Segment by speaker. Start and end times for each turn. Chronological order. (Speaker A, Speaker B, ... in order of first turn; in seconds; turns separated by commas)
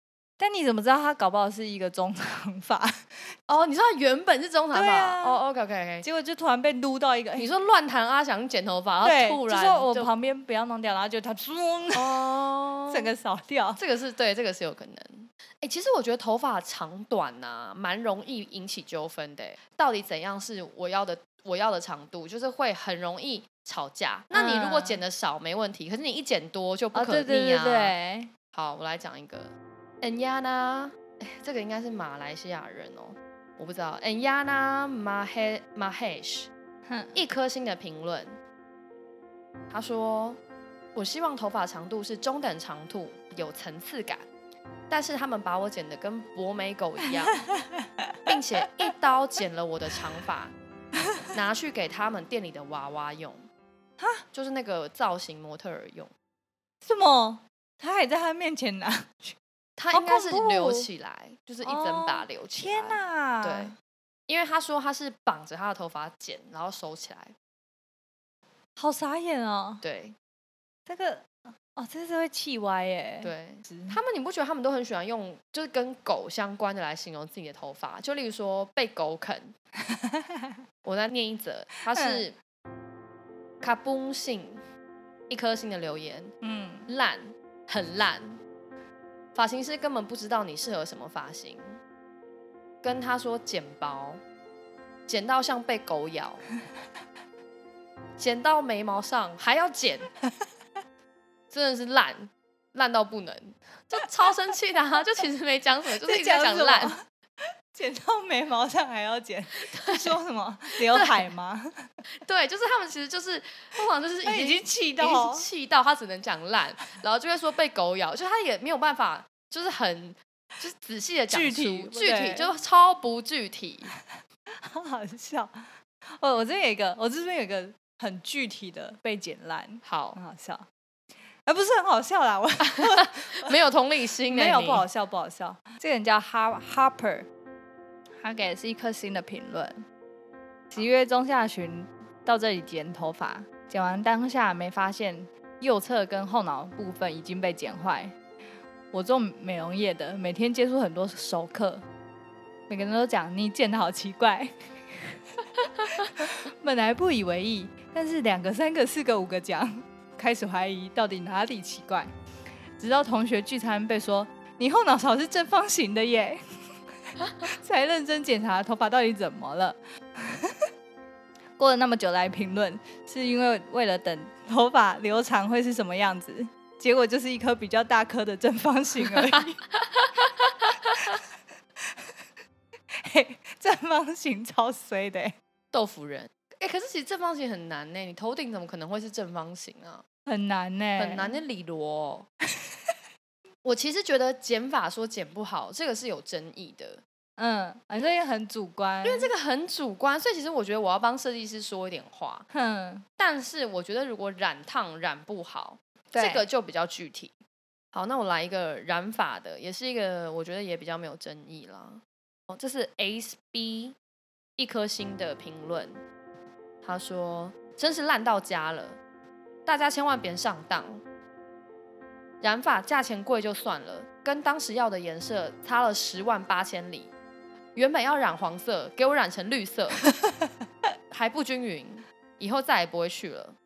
Speaker A: 0.4-3.3, Speaker B: 3.5-6.1, Speaker A: 4.7-5.4, Speaker A: 6.0-7.5, Speaker B: 7.4-10.1, Speaker A: 9.0-13.8, Speaker B: 11.9-13.1, Speaker B: 13.8-27.9, Speaker A: 24.3-25.0, Speaker A: 26.9-28.3, Speaker B: 28.5-36.5, Speaker A: 36.9-37.1, Speaker B: 37.1-38.4, Speaker B: 39.7-40.4, Speaker B: 41.0-44.3, Speaker B: 44.9-47.4, Speaker A: 47.5-48.4, Speaker B: 48.2-50.5, Speaker B: 51.3-53.5, Speaker B: 54.3-56.1, Speaker A: 56.8-59.4, Speaker B: 59.8-63.8, Speaker A: 59.9-60.9, Speaker A: 61.6-63.7, Speaker B: 64.3-67.3, Speaker A: 68.8-69.8, Speaker B: 69.8-70.2, Speaker A: 70.9-74.0, Speaker B: 73.2-79.5, Speaker A: 79.9-80.6, Speaker B: 80.8-82.4, Speaker A: 81.9-82.2, Speaker B: 83.6-84.6, Speaker B: 85.3-86.3, Speaker A: 86.4-86.9, Speaker B: 86.9-88.4, Speaker B: 89.3-91.8, Speaker B: 92.8-94.2, Speaker B: 95.1-96.4, Speaker B: 98.2-100.1, Speaker B: 101.5-107.0, Speaker A: 106.0-111.9, Speaker B: 109.7-110.1, Speaker B: 110.9-111.2, Speaker B: 112.2-123.9, Speaker A: 114.2-115.5, Speaker A: 121.3-122.5, Speaker A: 124.5-130.7, Speaker B: 129.8-130.2, Speaker A: 131.5-133.6, Speaker B: 132.8-134.9, Speaker A: 134.3-137.3, Speaker A: 138.2-139.8, Speaker A: 140.7-148.2, Speaker A: 148.9-151.8, Speaker A: 152.7-162.1, Speaker A: 162.8-166.4, Speaker A: 167.4-170.7, Speaker A: 171.6-179.6, Speaker A: 181.8-182.1, Speaker A: 182.9-185.3, Speaker B: 185.7-190.0, Speaker A: 190.3-191.3, Speaker B: 191.0-192.3, Speaker A: 192.6-192.9, Speaker B: 193.6-197.0, Speaker A: 197.4-199.3, Speaker B: 199.0-202.5, Speaker A: 202.5-203.1, Speaker B: 203.2-207.3, Speaker A: 206.1-206.4, Speaker B: 207.9-214.0, Speaker B: 214.6-216.0, Speaker B: 216.8-219.0, Speaker B: 219.7-221.0, Speaker B: 222.4-227.1, Speaker B: 227.8-230.1, Speaker A: 230.2-230.5, Speaker B: 231.1-233.6